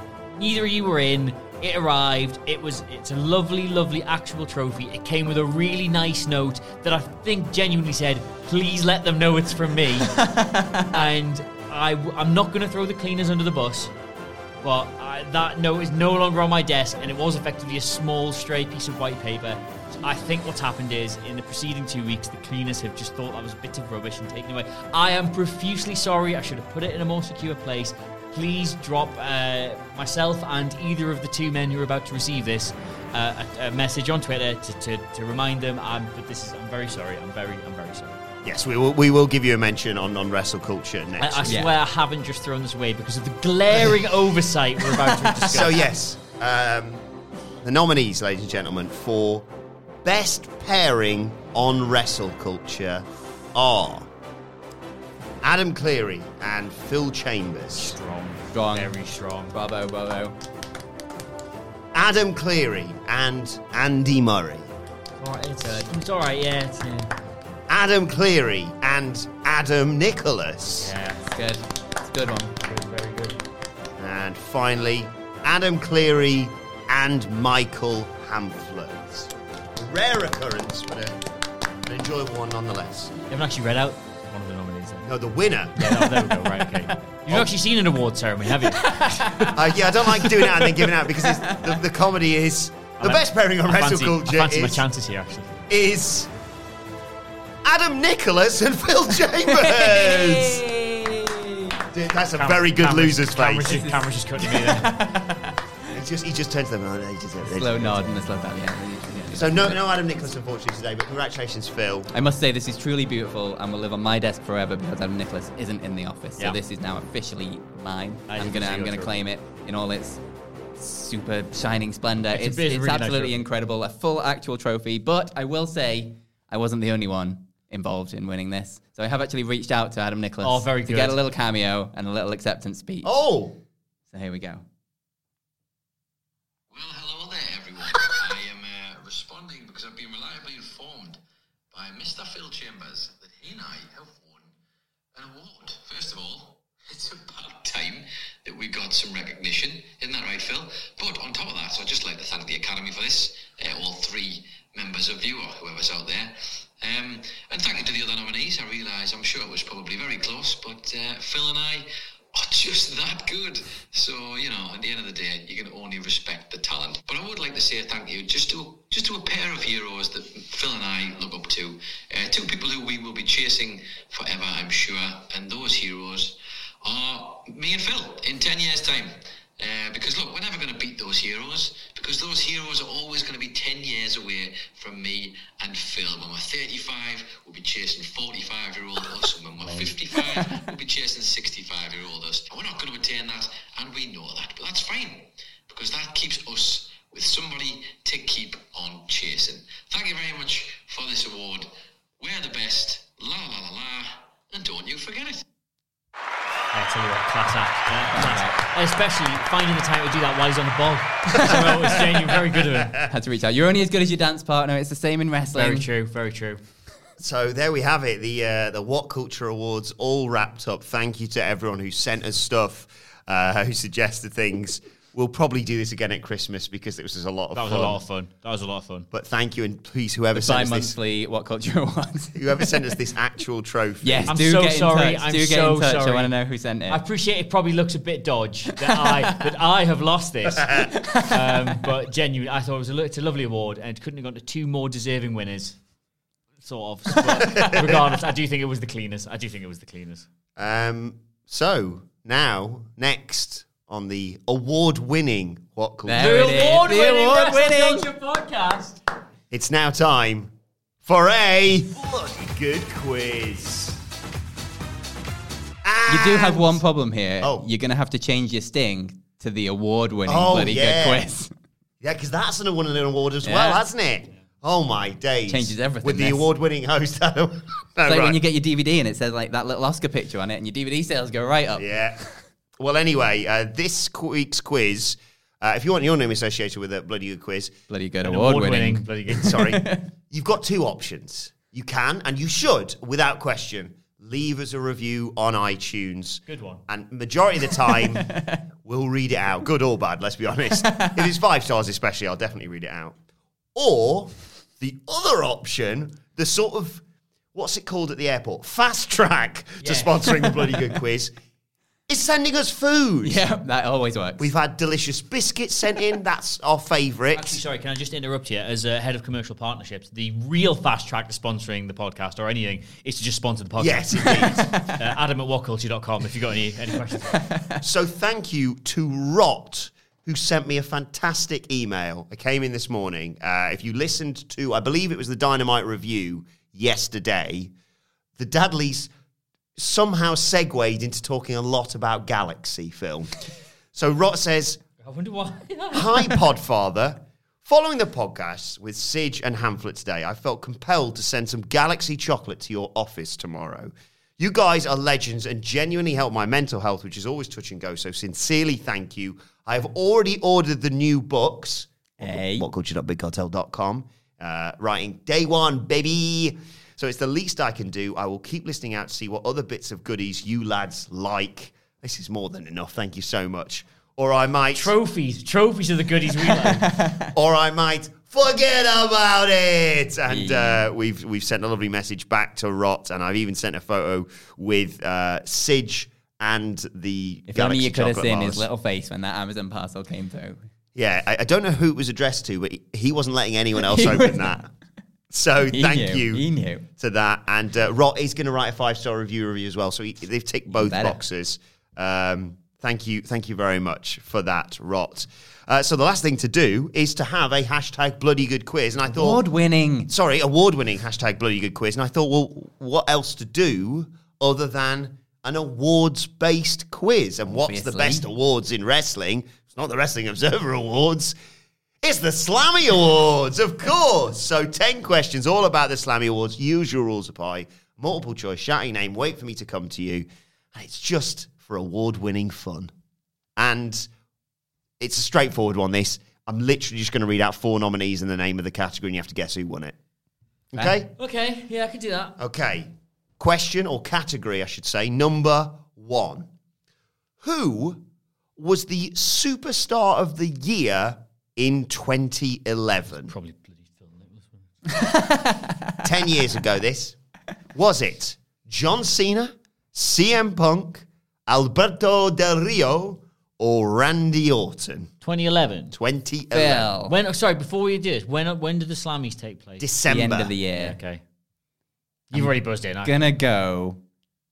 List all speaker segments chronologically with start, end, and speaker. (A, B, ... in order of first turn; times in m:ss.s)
0:00.4-0:10.1 A
0:10.2-0:10.9 B
0:10.9-0:13.9 A
0:14.6-0:38.2 A
0:38.4-0:41.6 C
0:41.2-0:45.8 A
0:41.5-0:41.7 B
0:45.4-0:47.0 C
0:47.6-0:49.5 C
0:50.0-0:54.1 C
0:55.4-0:58.0 C
0:57.7-0:59.5 A
0:58.5-0:58.9 B
0:59.5-1:00.4 B
1:01.9-1:04.7 C
1:05.2-1:07.1 A
1:07.7-1:10.9 C
1:10.8-1:11.2 A
1:11.2-1:12.6 B
1:12.6-1:13.4 A
1:14.0-1:21.2 C
1:21.8-1:23.1 C
1:23.3-1:25.1 A
1:25.0-1:25.8 C
1:25.8-1:29.5 A
1:25.8-1:26.8 B
1:28.8-1:29.6 B
1:29.5-1:34.8 C
1:30.2-1:31.8 B
1:33.0-1:35.7 A
1:35.7-1:36.3 C
1:37.6-1:40.6 C
1:39.4-1:41.8 B
1:41.9-1:43.8 C
1:42.4-1:45.0 A
1:43.6-1:45.6 B
1:45.9-1:48.2 C
1:47.4-1:49.8 B
1:49.3-1:52.1 C
1:52.1-2:00.2 B
1:58.3-1:59.2 A
2:00.8-2:13.1 B
2:02.3-2:03.4 A
2:10.4-2:11.2 A
2:13.0-2:13.6 C
2:14.1-2:14.6 B
2:16.7-2:21.2 D
2:21.7-2:24.5 D
2:25.1-3:25.4 D
3:09.6-3:10.5 B
3:26.7-3:33.0 A
3:28.1-3:28.5 B
3:32.7-3:33.1 C
3:33.1-3:35.9 B
3:35.6-3:36.6 A
3:37.2-3:48.0 C
3:47.5-3:49.1 A
3:49.1-3:51.0 C
3:50.4-3:52.6 B
3:52.3-3:54.3 C
3:54.0-3:57.0 B
3:54.3-3:56.3 A
3:56.9-4:05.8 A
3:59.0-3:59.5 B
4:00.8-4:01.6 B
4:06.6-4:10.3 A
4:07.5-4:08.0 C
4:10.6-4:16.6 C
4:16.1-4:18.1 B
4:16.2-4:19.0 A
4:19.5-4:20.5 C
4:21.0-4:24.0 C
4:25.8-4:26.8 C
4:26.1-4:31.5 B
4:27.4-4:27.7 C
4:30.3-4:31.3 C
4:32.0-4:38.4 C
4:33.4-4:33.8 B
4:35.5-4:36.5 B
4:38.0-4:41.9 B
4:41.8-4:42.2 C
4:42.8-4:47.7 C
4:47.9-4:50.1 B
4:48.2-4:49.6 A
4:49.4-5:03.2 C
4:56.5-4:56.8 A
4:58.2-4:58.6 B
5:03.8-5:07.0 C
5:07.5-5:11.3 C
5:09.8-5:10.2 A
5:12.1-5:13.4 C
5:13.2-5:14.5 B
5:14.4-5:17.6 C
5:17.3-5:27.5 A
5:23.8-5:24.8 C
5:24.4-5:24.7 B
5:27.4-5:27.8 B
5:27.8-5:37.7 C
5:38.4-5:39.1 C
5:39.8-5:43.3 C
5:43.9-5:44.8 C
5:45.0-5:46.4 A
5:45.9-6:14.9 C
6:02.2-6:02.7 B
6:14.7-6:16.9 A
6:16.6-6:17.3 B
6:17.3-6:28.7 C
6:20.3-6:20.8 B
6:27.5-6:30.6 B
6:31.0-6:34.7 C
6:33.8-6:34.6 B
6:35.3-6:36.4 C
6:35.7-6:36.9 B
6:37.0-6:49.4 C
6:40.7-6:41.2 B
6:49.1-6:50.1 B
6:50.1-7:01.4 C
6:57.5-6:58.2 B
7:02.0-7:12.9 C
7:13.6-7:14.1 C
7:15.0-7:20.0 C
7:20.7-7:21.1 C
7:21.2-7:22.4 A
7:22.4-7:26.5 C
7:27.4-7:28.0 C
7:28.6-7:33.3 C
7:33.2-7:34.7 A
7:34.9-7:35.9 B
7:36.0-7:37.2 C
7:37.7-7:45.1 C
7:45.2-7:46.0 A
7:45.9-7:46.9 C
7:46.5-7:47.2 B
7:47.1-7:49.9 A
7:49.8-7:50.6 C
7:50.1-7:51.0 B
7:50.7-7:51.2 A
7:52.3-7:53.1 A
7:52.3-7:54.0 B